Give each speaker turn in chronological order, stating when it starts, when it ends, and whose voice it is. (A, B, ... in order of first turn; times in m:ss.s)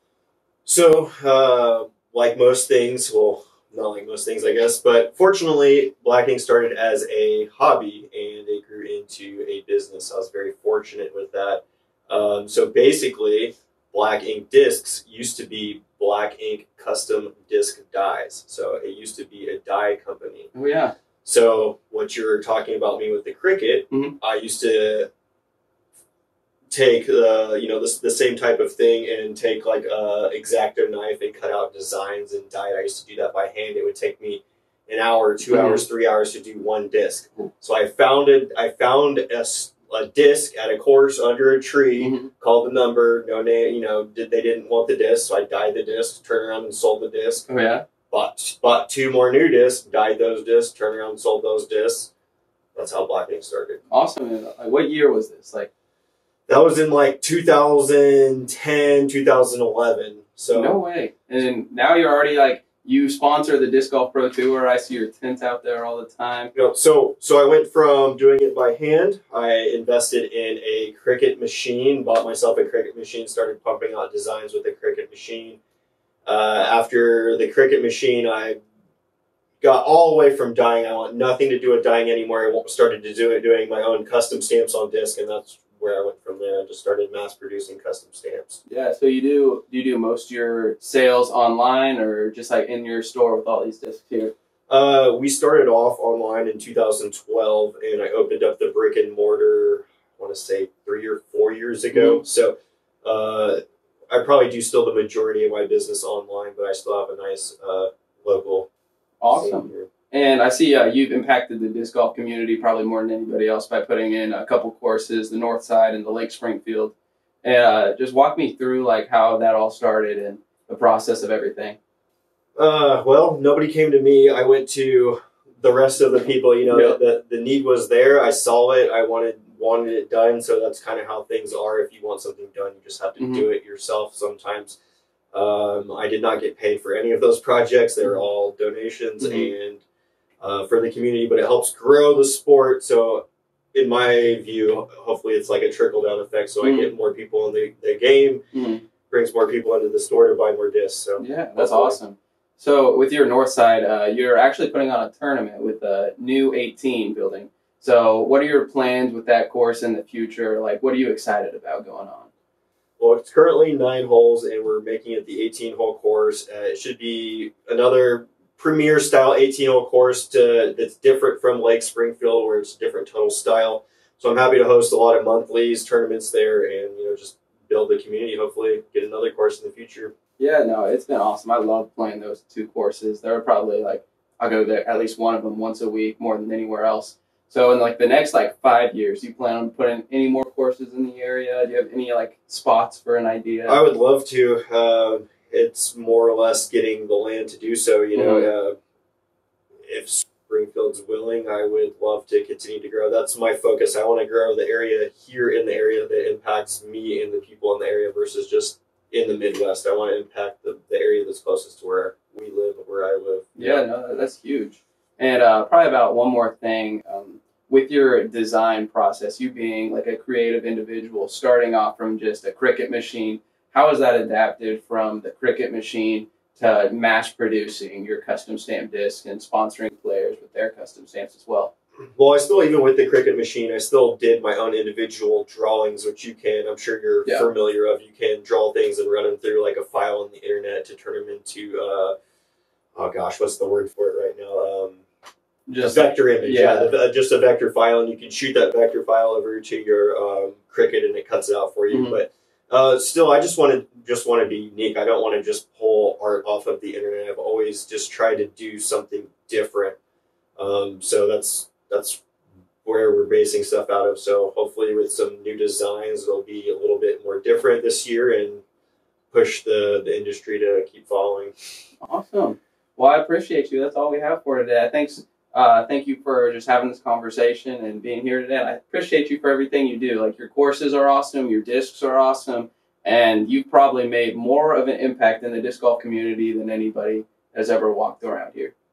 0:00.7-0:20.5 A
0:20.6-0:20.9 B
0:21.2-0:25.1 A
0:26.7-0:47.5 A
0:35.5-0:35.8 B
0:42.0-0:42.3 B
0:47.5-0:47.9 B
0:48.1-0:52.1 A
0:52.8-0:53.8 A
0:53.9-0:55.7 B
0:56.5-1:00.8 A
1:00.5-1:06.5 B
1:06.6-1:15.6 A
1:16.3-1:18.6 A
1:19.6-1:28.6 A
1:28.7-1:34.3 B
1:34.7-1:43.6 A
1:41.9-1:42.2 B
1:44.1-1:48.7 A
1:49.2-2:01.8 B
1:49.3-1:49.9 A
2:02.6-2:14.8 A
2:06.7-2:07.0 B
2:13.2-2:13.5 B
2:15.3-2:19.8 A
2:19.2-2:19.5 B
2:20.4-2:28.4 A
2:26.6-2:26.9 B
2:28.5-2:28.8 B
2:29.1-2:32.0 A
2:31.2-2:42.3 B
2:43.0-3:00.1 A
3:00.4-3:13.8 B
3:13.7-3:18.8 A
3:18.2-3:18.5 B
3:19.9-3:33.8 A
3:33.6-3:51.7 B
3:52.2-4:02.2 A
4:03.0-4:05.0 A
4:05.7-4:06.9 B
4:05.8-4:20.0 A
4:11.9-4:12.2 B
4:20.6-4:22.2 A
4:22.8-4:28.6 A
4:29.3-4:31.5 A
4:32.0-4:48.7 B